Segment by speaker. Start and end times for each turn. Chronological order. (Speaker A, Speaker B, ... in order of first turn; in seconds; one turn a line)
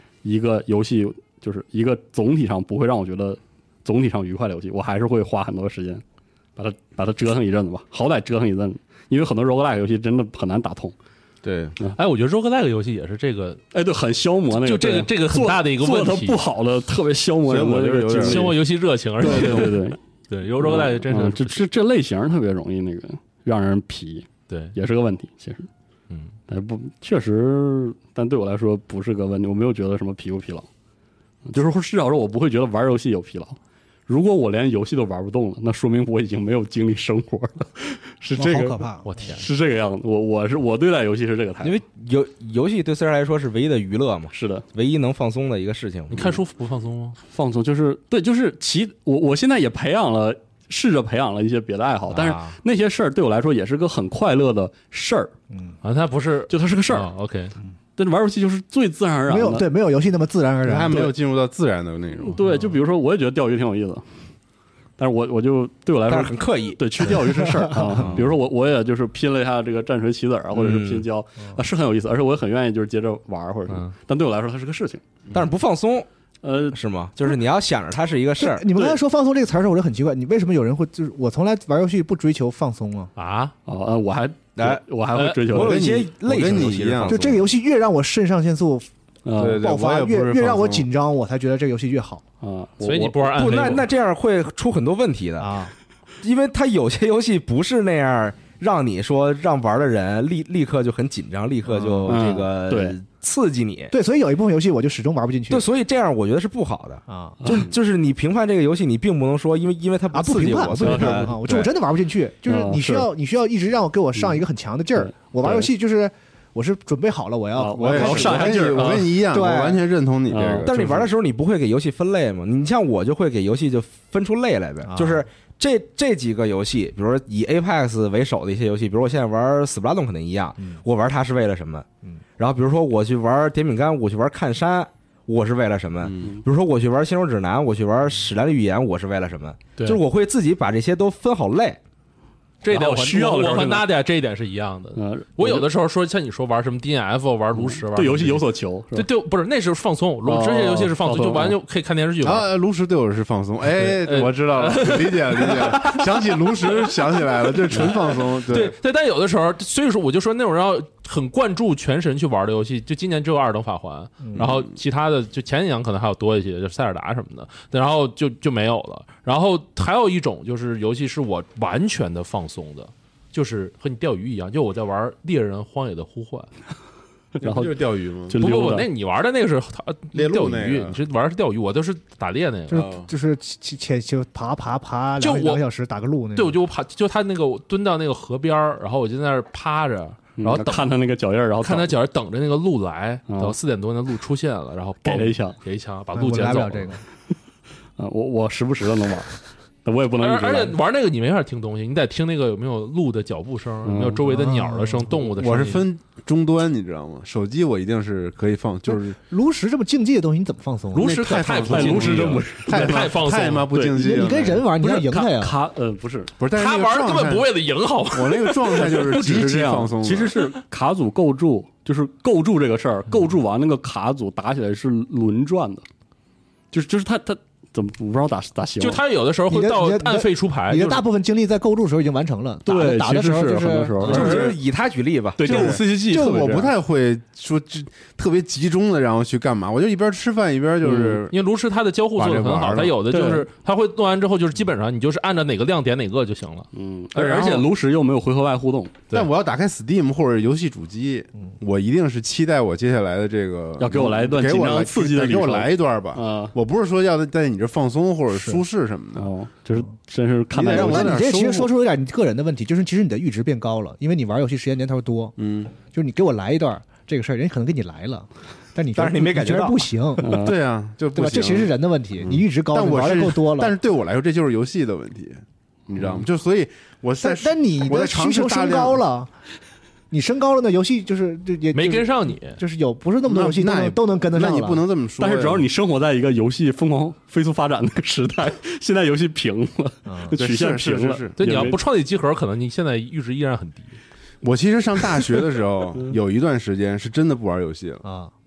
Speaker A: 0.2-6.0
Speaker A: 6.6-10.9
Speaker B: 11.4-11.8
Speaker C: 11.9-13.6
Speaker A: 13.7-18.6
Speaker C: 14.5-16.4
Speaker B: 17.5-18.4
Speaker C: 18.2-21.6
Speaker A: 19.2-20.0
Speaker A: 20.6-25.7
Speaker C: 24.5-24.7
Speaker A: 26.5-30.7
Speaker A: 31.5-41.8
Speaker D: 38.4-39.1
Speaker C: 39.0-39.4
Speaker E: 41.6-46.4
Speaker A: 44.3-44.6
Speaker C: 46.1-47.2
Speaker A: 47.3-55.3
Speaker E: 52.1-52.5
Speaker D: 55.5-55.8
Speaker C: 55.8-57.5
Speaker A: 56.5-57.1
Speaker A: 58.0-59.7
Speaker D: 59.3-61.1
Speaker B: 60.6-62.4
Speaker A: 62.2-64.0
Speaker A: 65.0-75.0
Speaker E: 66.1-67.3
Speaker D: 67.7-68.1
Speaker E: 70.5-71.0
Speaker E: 75.3-76.1
Speaker A: 76.4-76.8
Speaker E: 76.7-78.7
Speaker D: 78.4-83.1
Speaker C: 83.2-83.5
Speaker A: 83.7-85.9
Speaker E: 84.5-84.8
Speaker C: 85.1-85.5
Speaker E: 85.5-87.4
Speaker B: 85.5-87.3
Speaker D: 87.0-88.9
Speaker A: 89.2-89.6
Speaker B: 89.3-90.9
Speaker D: 89.5-92.2
Speaker A: 92.4-93.7
Speaker C: 92.8-93.8
Speaker E: 93.3-95.6
Speaker D: 95.4-95.7
Speaker E: 96.2-104.0
Speaker A: 102.1-103.0
Speaker D: 103.9-105.7
Speaker E: 105.5-111.7
Speaker D: 107.1-107.4
Speaker A: 107.4-107.7
Speaker D: 110.1-119.8
Speaker A: 110.8-111.3
Speaker A: 112.5-113.1
Speaker A: 114.2-114.4
Speaker A: 115.0-115.7
Speaker A: 117.5-119.2
Speaker B: 117.8-121.1
Speaker A: 120.3-120.7
Speaker E: 120.6-131.8
Speaker D: 124.8-125.2
Speaker E: 132.4-141.8
Speaker B: 136.1-136.3
Speaker C: 142.6-148.4
Speaker A: 142.7-143.9
Speaker A: 144.9-145.7
Speaker A: 147.5-149.1
Speaker C: 148.9-152.5
Speaker A: 150.2-151.6
Speaker B: 152.2-158.8
Speaker C: 153.8-156.1
Speaker C: 157.7-176.5
Speaker D: 164.2-164.5
Speaker B: 164.4-164.7
Speaker A: 177.4-178.9
Speaker B: 177.4-178.4
Speaker C: 178.3-182.8
Speaker B: 180.1-181.0
Speaker D: 182.7-186.6
Speaker B: 182.7-183.1
Speaker C: 185.2-185.6
Speaker C: 186.3-190.9
Speaker A: 190.4-191.9
Speaker C: 191.6-196.9
Speaker A: 193.3-193.6
Speaker A: 195.0-195.6
Speaker D: 196.1-197.0
Speaker A: 198.0-199.3
Speaker A: 199.8-200.8
Speaker C: 200.2-205.8
Speaker A: 203.8-204.2
Speaker D: 204.2-205.2
Speaker B: 205.4-209.2
Speaker D: 208.8-211.2
Speaker C: 210.9-213.7
Speaker B: 211.0-214.7
Speaker A: 211.6-213.1
Speaker A: 213.7-216.3
Speaker D: 214.0-215.5
Speaker B: 216.4-217.5
Speaker C: 216.5-219.3
Speaker B: 218.1-220.3
Speaker A: 218.8-225.8
Speaker A: 226.7-229.0
Speaker C: 228.8-231.1
Speaker D: 229.5-234.4
Speaker A: 232.6-234.5
Speaker E: 234.0-235.8
Speaker C: 234.1-234.4
Speaker B: 234.1-234.5
Speaker A: 235.4-236.7
Speaker B: 235.4-241.3
Speaker D: 236.1-236.6
Speaker A: 240.8-241.2
Speaker C: 241.3-246.7
Speaker B: 242.2-243.0
Speaker A: 243.1-243.5
Speaker A: 246.7-249.0
Speaker B: 247.1-247.7
Speaker B: 249.1-259.3
Speaker A: 253.8-256.5
Speaker D: 258.3-258.6
Speaker A: 259.1-261.6
Speaker B: 260.5-261.4
Speaker D: 260.7-270.4
Speaker E: 260.8-261.1
Speaker B: 265.4-265.8
Speaker E: 268.9-269.9
Speaker A: 270.2-270.6
Speaker B: 270.4-279.0
Speaker D: 271.1-273.7
Speaker D: 277.2-279.3
Speaker D: 280.1-284.8
Speaker C: 281.7-282.6
Speaker B: 283.3-285.6
Speaker A: 285.2-291.8
Speaker D: 290.1-290.4
Speaker B: 290.3-291.6
Speaker C: 291.4-294.0
Speaker B: 294.4-298.0
Speaker D: 298.0-298.3